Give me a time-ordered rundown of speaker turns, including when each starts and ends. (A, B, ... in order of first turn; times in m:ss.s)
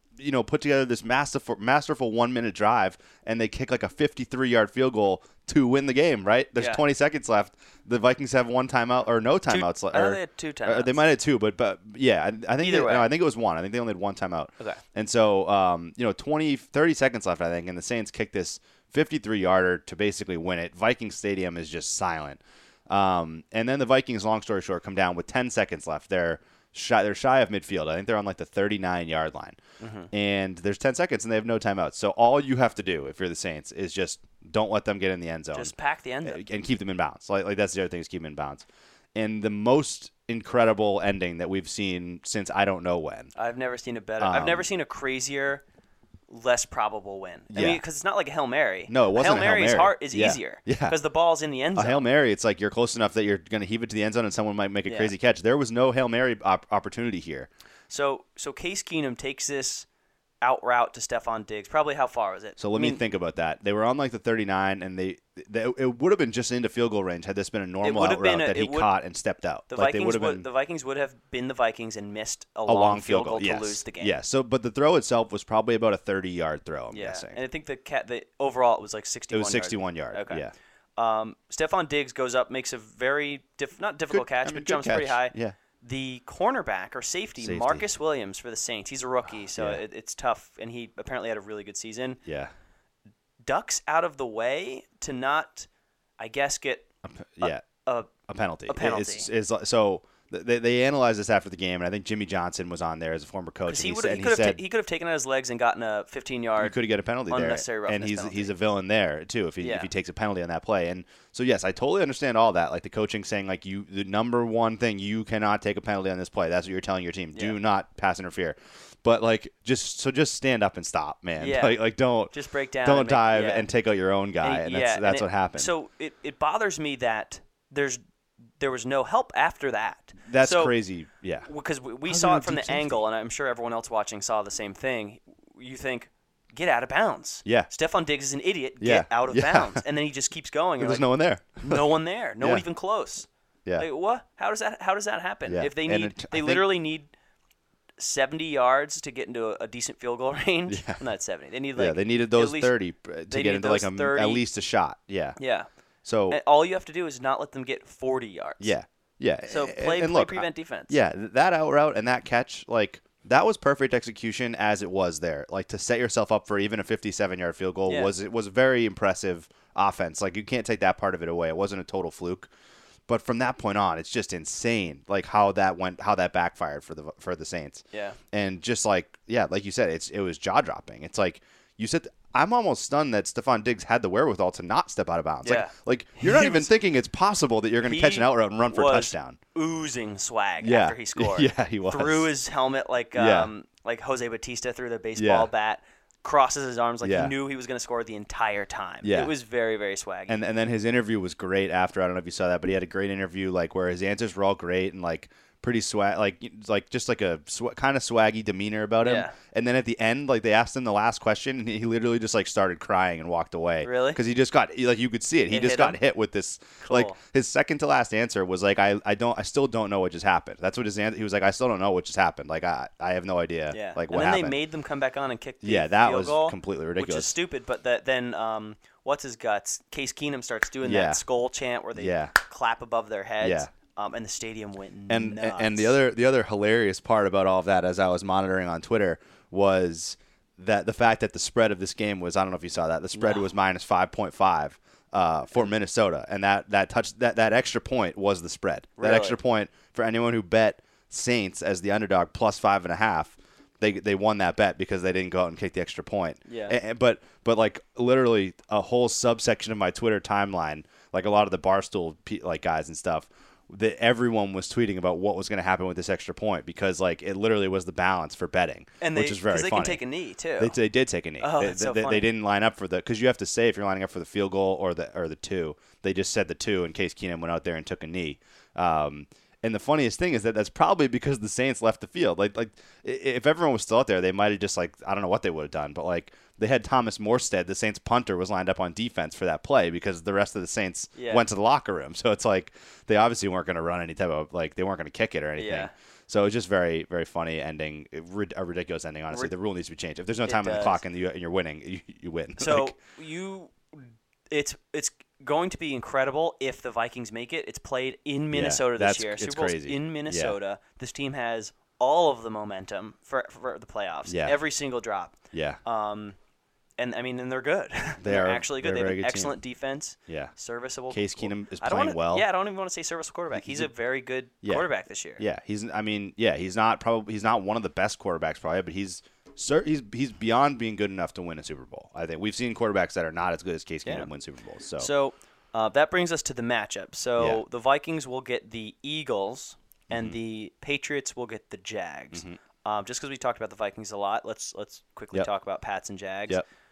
0:00.2-0:29.6 A
0:06.6-0:06.8 B
0:09.5-0:11.0 B
0:12.6-0:13.1 B
0:29.8-0:30.1 B
0:30.1-0:35.7 A
0:35.5-0:36.4 B
0:36.2-0:43.3 A
0:43.3-0:45.6 B
0:44.2-0:44.6 A
0:46.3-0:52.0 B
0:47.5-0:47.8 A
0:48.9-0:51.0 A
0:51.8-0:57.5 A
0:54.8-0:55.1 B
0:57.9-0:59.8 B
1:00.4-1:03.0 B
1:02.6-1:10.5 A
1:07.8-1:08.9 B
1:09.7-1:14.1 B
1:12.6-1:17.4 A
1:16.9-1:20.4 B
1:19.3-1:20.5 A
1:21.0-1:32.2 B
1:24.1-1:25.6 A
1:27.4-1:27.9 A
1:29.5-1:29.8 A
1:32.2-1:32.5 A
1:33.4-1:35.7 B
1:36.2-1:36.9 B
1:37.0-1:37.6 A
1:37.4-1:38.1 B
1:38.3-1:44.6 A
1:38.7-1:39.3 B
1:43.7-1:46.8 B
1:46.6-2:02.3 A
1:47.3-1:48.5 B
1:49.6-1:49.9 B
2:01.4-2:03.7 B
2:02.8-2:05.7 A
2:04.4-2:08.0 B
2:08.6-2:10.7 B
2:10.2-2:11.5 A
2:11.5-2:21.0 B
2:12.0-2:13.0 A
2:18.8-2:19.8 A
2:20.8-2:21.9 A
2:21.6-2:23.3 B
2:23.8-2:27.1 B
2:25.5-2:26.7 A
2:28.0-2:32.7 B
2:30.7-2:31.0 A
2:31.8-2:35.4 A
2:33.3-2:34.4 B
2:35.4-2:35.7 B
2:36.0-2:36.4 A
2:36.3-2:38.7 B
2:38.6-2:52.5 A
2:39.5-2:41.0 B
2:47.9-2:48.1 B
2:53.1-3:09.4 A
3:05.4-3:06.7 B
3:07.8-3:20.4 B
3:10.6-3:12.3 A
3:13.1-3:13.5 A
3:15.2-3:15.5 A
3:17.0-3:17.3 A
3:19.0-3:19.3 A
3:20.3-3:44.6 A
3:29.0-3:29.3 B
3:33.8-3:34.2 B
3:35.5-3:36.0 B
3:36.8-3:37.2 B
3:43.7-3:56.0 B
3:45.6-3:47.3 A
3:50.8-3:51.2 A
3:52.0-3:52.3 A
3:53.4-3:53.7 A
3:55.1-4:30.0 A
4:03.2-4:03.4 B
4:09.0-4:09.4 B
4:16.5-4:16.8 B
4:29.0-4:30.8 B
4:30.6-5:03.0 A
4:31.4-4:32.3 B
4:51.2-4:51.4 B
4:55.6-4:55.9 B
5:00.4-5:01.0 B
5:02.6-5:16.4 B
5:08.5-5:10.6 A
5:14.3-5:14.6 A
5:15.5-5:15.8 A
5:17.0-5:25.4 B
5:18.2-5:19.6 A
5:20.3-5:20.5 A
5:21.1-5:22.4 A
5:23.5-5:23.9 A
5:25.4-5:35.1 A
5:35.0-5:46.6 B
5:40.1-5:40.4 A
5:42.3-5:42.6 A